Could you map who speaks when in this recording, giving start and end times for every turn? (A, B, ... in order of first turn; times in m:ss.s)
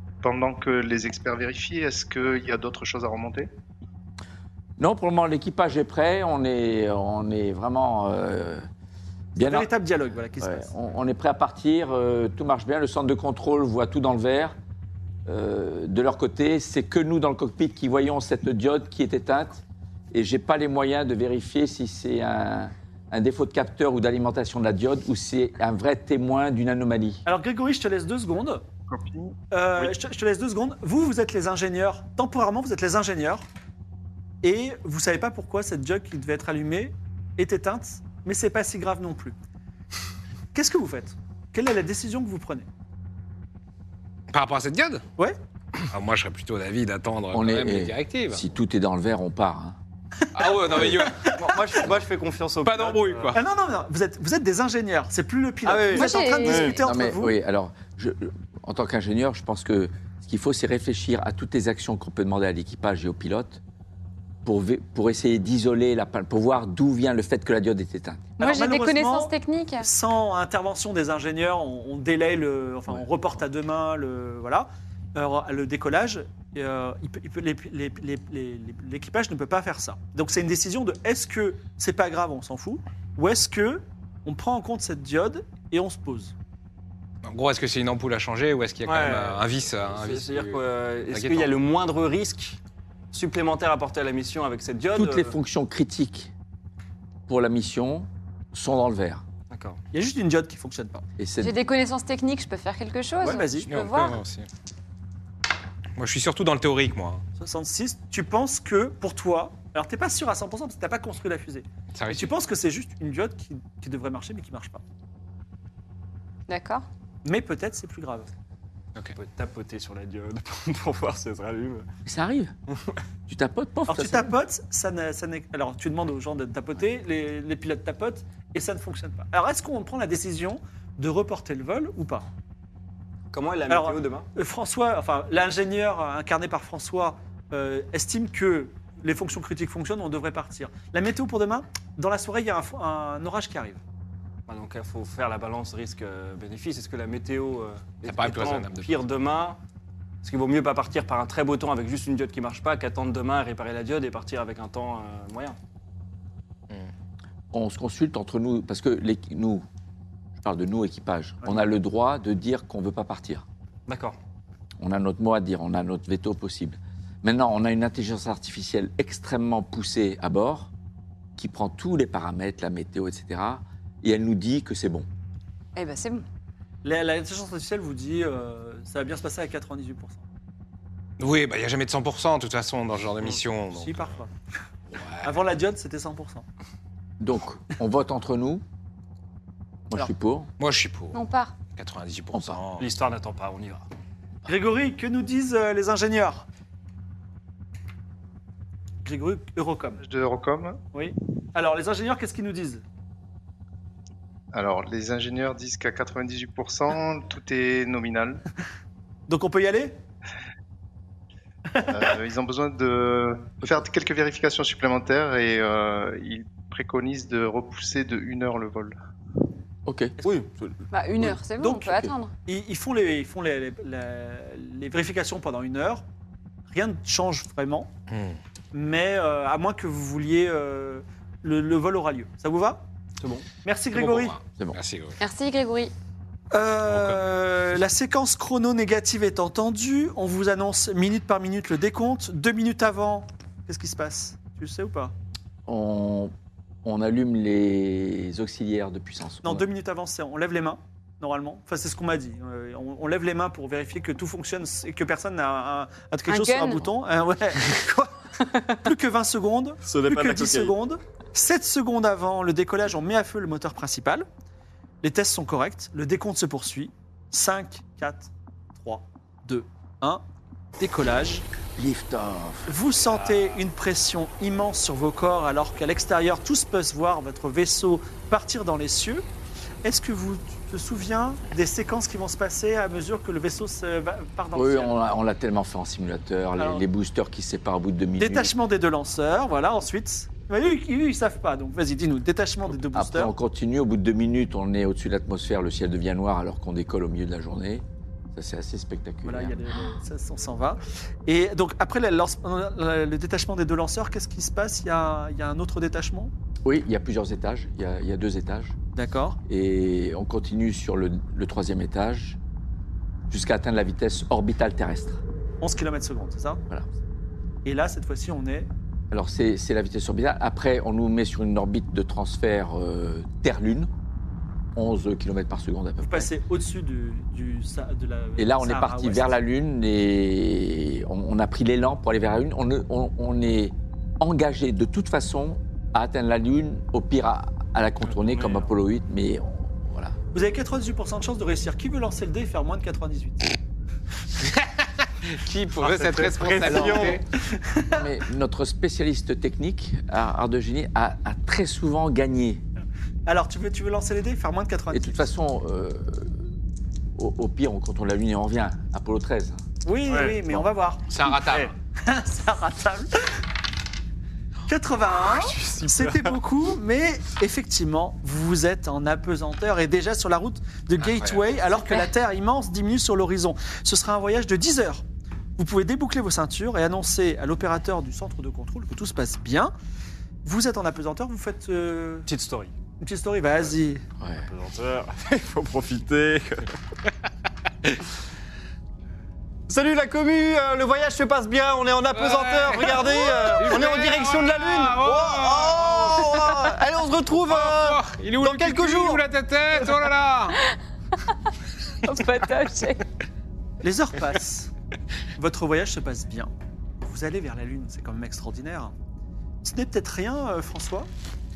0:00.2-0:03.5 A
0:04.8-0:08.6 B
0:09.3-0:09.7 B
0:09.4-0:10.7 C
0:10.4-0:14.5 B
0:15.2-0:27.2 B
0:27.2-0:28.6 C
0:28.9-0:29.4 A
0:29.5-0:33.4 C
0:34.4-0:39.4 C
0:40.5-0:42.7 C
0:44.3-0:45.0 D
0:45.9-0:48.4 D
0:47.3-0:49.8 B
0:50.3-0:51.8 D
0:50.5-0:51.4 C
0:51.2-0:53.3 E
0:52.6-0:53.4 D
0:53.3-0:57.4 C
0:55.6-0:56.8 E
0:55.9-0:56.8 F
0:56.8-1:03.6 B
1:04.4-1:08.3 B
1:08.4-1:09.9 F
1:08.4-1:26.3 C
1:27.2-1:31.5 D
1:28.8-1:32.6 E
1:33.1-1:35.3 E
1:34.9-1:36.3 B
1:37.3-1:39.2 B
1:39.5-1:39.8 E
1:39.9-1:41.0 C
1:41.2-1:41.6 B
1:41.4-1:44.2 F
1:43.2-1:43.7 C
1:43.7-1:44.5 D
1:46.0-1:47.2 D
1:47.4-1:54.8 C
1:51.9-1:52.3 D
1:56.5-1:56.9 F
1:57.2-1:58.3 C
1:59.1-2:01.9 E
2:02.0-2:02.5 B
2:03.3-2:04.3 B
2:03.9-2:12.3 C
2:13.3-2:14.3 E
2:13.7-2:23.8 C
2:24.5-2:29.6 E
2:28.0-2:29.0 D
2:30.2-2:35.6 E
2:37.5-2:39.6 B
2:40.4-2:43.4 B
2:43.9-2:44.2 E
2:44.8-2:50.7 B
2:51.4-2:55.1 B
2:55.8-2:56.2 F
2:56.8-3:00.2 C
3:01.2-3:04.1 D
3:03.7-3:04.3 C
3:05.0-3:05.4 D
3:05.2-3:06.4 C
3:07.2-3:08.6 B
3:09.9-3:10.5 B
3:10.6-3:11.2 D
3:11.1-3:11.5 F
3:11.8-3:12.9 D
3:12.3-3:12.6 B
3:12.8-3:13.8 E
3:14.5-3:16.4 C
3:19.0-3:20.0 C
3:20.0-3:20.8 A
3:20.9-3:22.8 C
3:24.5-3:28.4 A
3:29.3-3:30.0 C
3:31.7-3:32.1 C
3:31.9-3:39.0 A
3:39.9-3:40.2 B
3:40.2-3:40.7 E
3:40.9-3:42.3 F
3:41.6-3:46.0 C
3:41.8-3:42.1 B
3:46.7-3:47.9 C
3:48.1-3:48.4 D
3:48.7-3:52.9 C
3:53.2-3:53.5 E
3:53.6-3:54.3 C
3:53.9-3:55.2 D
3:55.2-3:55.9 F
3:56.5-4:05.1 C
3:56.9-3:57.2 D
4:05.6-4:06.3 B
4:06.8-4:09.7 B
4:09.4-4:18.2 C
4:16.3-4:16.8 F
4:18.8-4:24.2 C
4:19.8-4:20.7 E
4:25.0-4:30.2 C
4:30.8-4:31.4 C
4:31.8-4:32.7 B
4:32.7-4:39.2 C
4:33.3-4:33.6 E
4:39.8-4:45.0 C
4:44.5-4:48.5 B
4:46.6-4:46.8 C
4:48.2-4:53.3 C
4:52.9-4:59.6 B
4:59.2-5:06.3 C
5:06.6-5:08.8 B
5:08.9-5:09.4 C
5:09.5-5:12.4 B
5:13.3-5:15.2 B
5:15.6-5:16.6 C
5:17.6-5:18.7 C
5:19.1-5:23.9 B
5:24.7-5:26.3 B
5:26.0-5:29.4 C
5:28.4-5:40.2 B
5:38.1-5:38.7 E
5:40.3-5:43.6 C
5:45.2-5:47.2 D
5:45.8-5:47.2 E
5:46.6-5:47.2 B
5:47.4-5:48.0 C
5:47.9-5:52.6 B
5:53.2-5:55.2 C
5:54.9-5:56.5 B
5:57.1-5:59.6 B
5:59.8-6:01.0 C
6:00.1-6:00.4 E
6:01.1-6:01.7 D
6:01.3-6:01.7 E
6:02.0-6:03.4 C
6:04.7-6:15.0 C
6:05.3-6:06.4 E
6:11.0-6:11.5 D
6:15.6-6:19.7 C
6:20.4-6:22.3 C
6:22.2-6:22.7 E
6:23.0-6:24.0 C
6:24.2-6:24.5 B
6:24.4-6:26.7 E
6:29.7-6:39.2 E
6:32.1-6:36.8 D
6:37.5-6:40.6 D
6:42.0-6:43.0 F
6:43.8-6:44.7 C
6:45.4-6:46.5 C
6:47.0-6:48.9 C
6:49.6-6:51.1 C